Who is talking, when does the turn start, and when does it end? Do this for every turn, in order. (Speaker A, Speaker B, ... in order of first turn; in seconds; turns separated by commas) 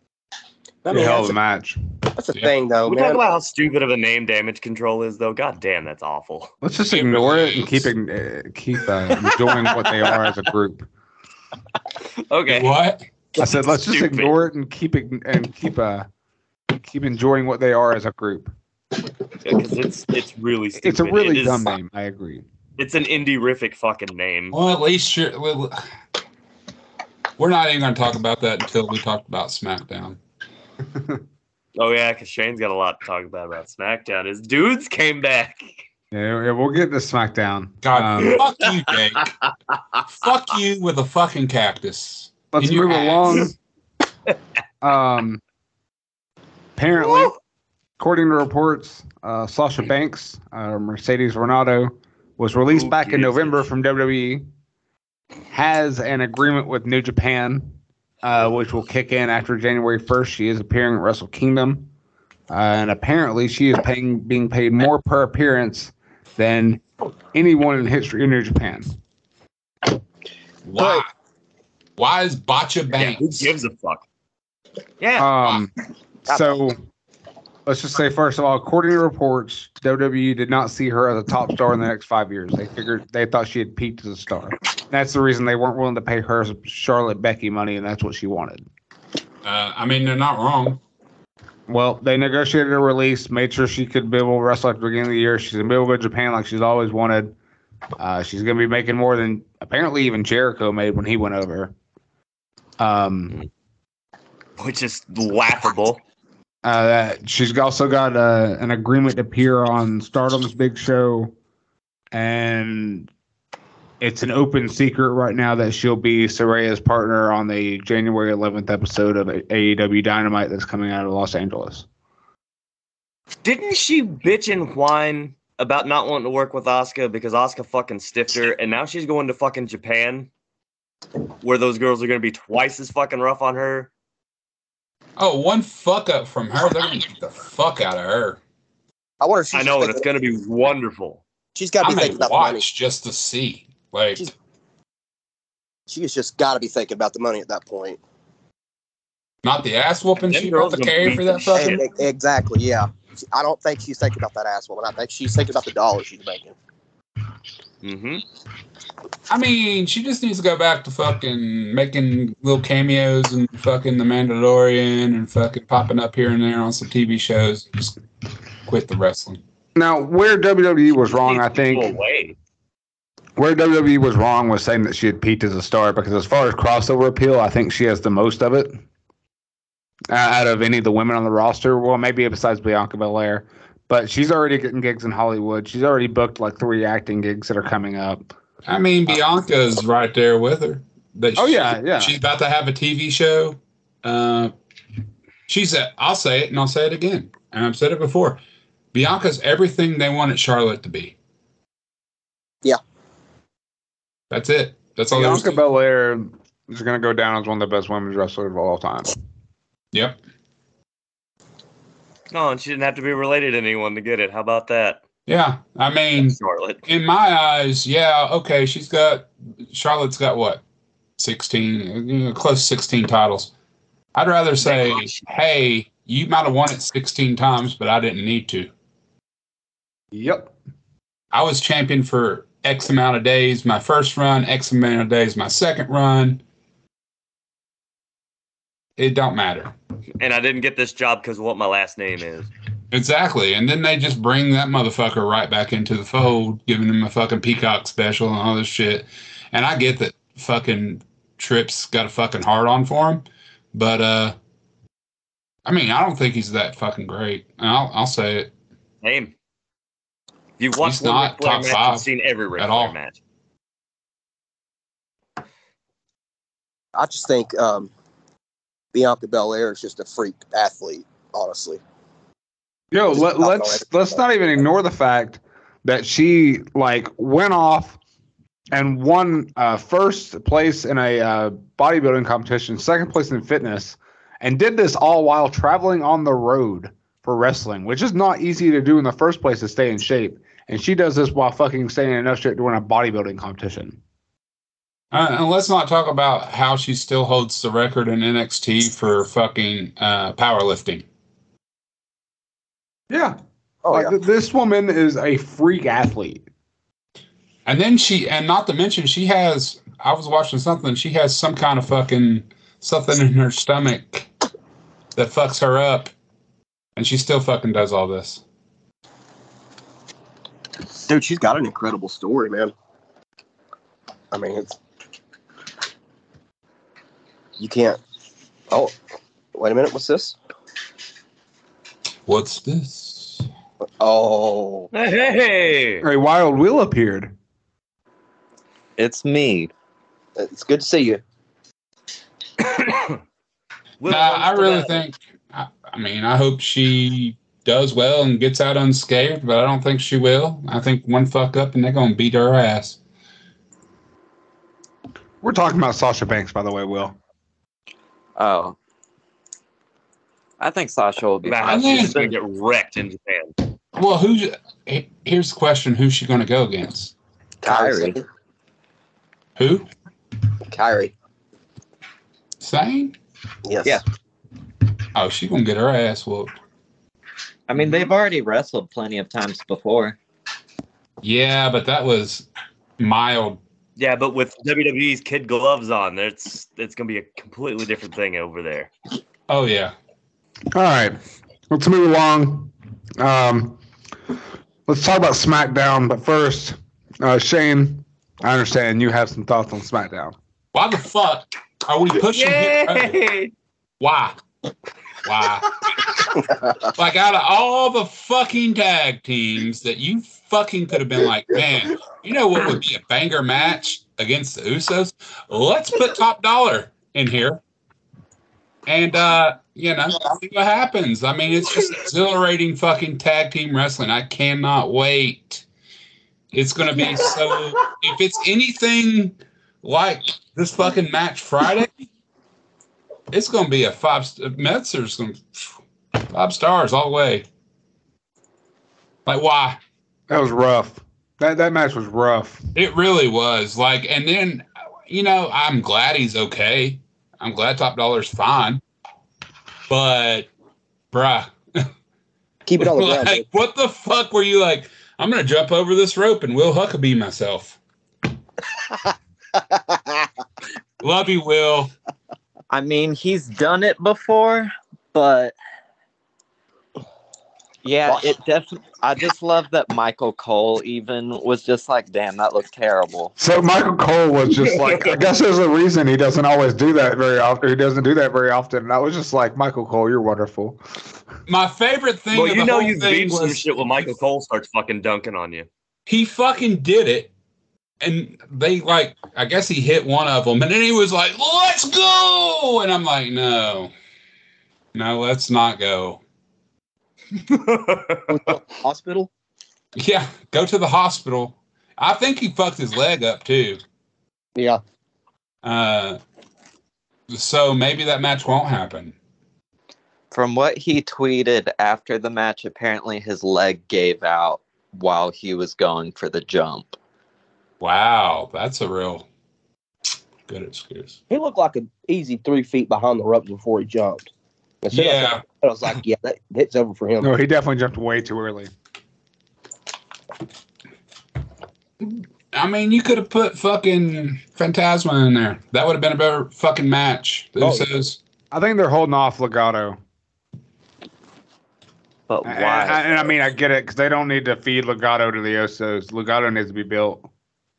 Speaker A: 0.8-1.3, Speaker B: 0.9-1.8, Speaker A: 2.1-3.2, Speaker C: 2.9-6.5, Speaker B: 6.6-10.9, Speaker D: 6.9-7.9, Speaker C: 9.5-9.9, Speaker C: 12.3-12.7, Speaker D: 12.5-13.0, Speaker C: 13.3-14.4, Speaker B: 13.4-16.1, Speaker B: 16.8-18.5, Speaker C: 19.4-21.7, Speaker B: 20.8-22.4, Speaker C: 22.8-24.6, Speaker D: 24.5-25.8, Speaker D: 27.4-30.2, Speaker B: 30.9-31.2, Speaker C: 31.8-35.7, Speaker B: 36.1-38.4, Speaker D: 37.8-39.3, Speaker D: 40.0-43.5, Speaker B: 42.5-43.5, Speaker B: 44.8-45.4, Speaker B: 46.8-47.3, Speaker B: 48.0-54.5, Speaker C: 52.7-53.6, Speaker B: 55.5-61.9, Speaker B: 62.5-68.9, Speaker D: 70.6-71.1, Speaker A: 70.8-71.0, Speaker D: 72.0-73.5, Speaker C: 72.9-74.0, Speaker C: 75.0-75.3, Speaker B: 75.2-75.7, Speaker B: 76.3-76.8, Speaker B: 77.7-88.7, Speaker D: 89.4-90.8, Speaker B: 91.7-97.3, Speaker B: 98.0-101.7, Speaker B: 102.8-103.4, Speaker C: 104.6-106.0, Speaker B: 106.6-111.3, Speaker B: 112.1-113.1, Speaker B: 114.0-121.8, Speaker C: 123.4-130.3, Speaker C: 131.4-133.9, Speaker D: 135.2-138.4, Speaker A: 139.2-140.0, Speaker C: 139.5-141.2, Speaker A: 141.5-142.6, Speaker D: 141.8-144.3, Speaker A: 145.9-148.0, Speaker D: 149.4-151.8, Speaker C: 150.3-151.8, Speaker A: 151.6-156.5, Speaker C: 157.8-158.2, Speaker D: 159.3-168.0, Speaker D: 168.6-169.4, Speaker B: 169.7-171.9, Speaker C: 171.1-172.3, Speaker B: 173.3-178.8, Speaker B: 180.1-188.2, Speaker D: 188.7-194.5, Speaker B: 191.3-192.1, Speaker D: 195.5-198.4, Speaker D: 198.9-201.1, Speaker D: 204.3-205.6, Speaker B: 205.1-209.1, Speaker D: 209.9-210.2, Speaker C: 212.3-215.0, Speaker D: 215.3-220.6, Speaker C: 216.2-216.8, Speaker D: 221.2-223.5, Speaker D: 224.1-228.7, Speaker C: 224.6-225.2, Speaker B: 230.1-230.5, Speaker D: 231.3-236.4, Speaker D: 239.0-239.7, Speaker C: 240.2-242.5, Speaker D: 242.9-254.3, Speaker D: 255.6-258.5, Speaker C: 259.0-259.3, Speaker C: 260.6-263.2, Speaker D: 260.8-262.9, Speaker A: 266.9-267.9, Speaker A: 268.9-271.8, Speaker B: 272.9-278.0, Speaker A: 273.1-273.9, Speaker B: 278.7-294.0, Speaker D: 295.1-301.0, Speaker B: 303.1-303.4, Speaker A: 303.8-304.1, Speaker B: 303.9-306.4, Speaker D: 307.6-314.3, Speaker D: 315.1-316.1, Speaker D: 316.9-318.4, Speaker A: 321.1-322.7, Speaker A: 324.3-324.8, Speaker A: 327.6-328.0, Speaker A: 329.5-330.4, Speaker D: 332.3-333.4, Speaker A: 334.0-334.9, Speaker C: 334.9-336.0, Speaker B: 336.0-337.3, Speaker E: 339.0-339.7, Speaker A: 340.4-341.2, Speaker C: 342.7-343.2, Speaker C: 344.0-345.0, Speaker D: 344.1-353.0, Speaker B: 355.4-357.1, Speaker E: 358.4-358.8, Speaker E: 360.6-362.3, Speaker C: 361.4-363.5, Speaker D: 361.6-362.2, Speaker D: 363.9-367.1, Speaker E: 367.6-368.2, Speaker A: 367.6-368.2, Speaker D: 369.6-369.9, Speaker A: 370.7-371.1, Speaker D: 372.6-373.1, Speaker A: 373.6-374.0, Speaker D: 375.1-376.5, Speaker E: 377.7-380.2, Speaker D: 381.2-382.4, Speaker D: 383.0-383.6, Speaker C: 384.0-388.9, Speaker D: 389.5-389.9, Speaker B: 390.7-391.2, Speaker B: 391.7-393.8, Speaker B: 394.9-400.3, Speaker D: 400.7-403.2, Speaker C: 402.3-403.5, Speaker D: 404.0-404.4, Speaker D: 405.2-417.6, Speaker D: 418.9-425.6, Speaker D: 426.5-431.9, Speaker D: 433.3-435.7, Speaker D: 436.2-437.4, Speaker D: 439.2-439.8, Speaker B: 440.3-442.6, Speaker D: 442.7-448.8, Speaker D: 449.9-450.5, Speaker D: 451.1-451.9, Speaker A: 452.6-453.4, Speaker D: 452.8-457.8, Speaker A: 459.6-460.2, Speaker D: 461.0-461.9, Speaker E: 462.7-465.6, Speaker E: 467.8-473.3, Speaker B: 473.4-480.8, Speaker D: 481.5-483.7, Speaker C: 482.3-485.7, Speaker D: 486.1-487.3, Speaker D: 488.0-493.9, Speaker D: 494.9-496.2, Speaker C: 497.5-498.4, Speaker A: 498.3-499.3, Speaker D: 499.9-503.8, Speaker D: 505.6-506.2, Speaker D: 507.3-509.1, Speaker E: 510.3-517.0, Speaker D: 517.8-519.2, Speaker D: 520.5-521.2, Speaker A: 521.3-524.3, Speaker A: 524.8-527.3, Speaker D: 524.9-525.4, Speaker B: 527.2-528.7, Speaker D: 532.0-538.2, Speaker A: 537.6-537.9, Speaker B: 538.5-540.0, Speaker E: 542.3-543.2, Speaker B: 542.4-547.3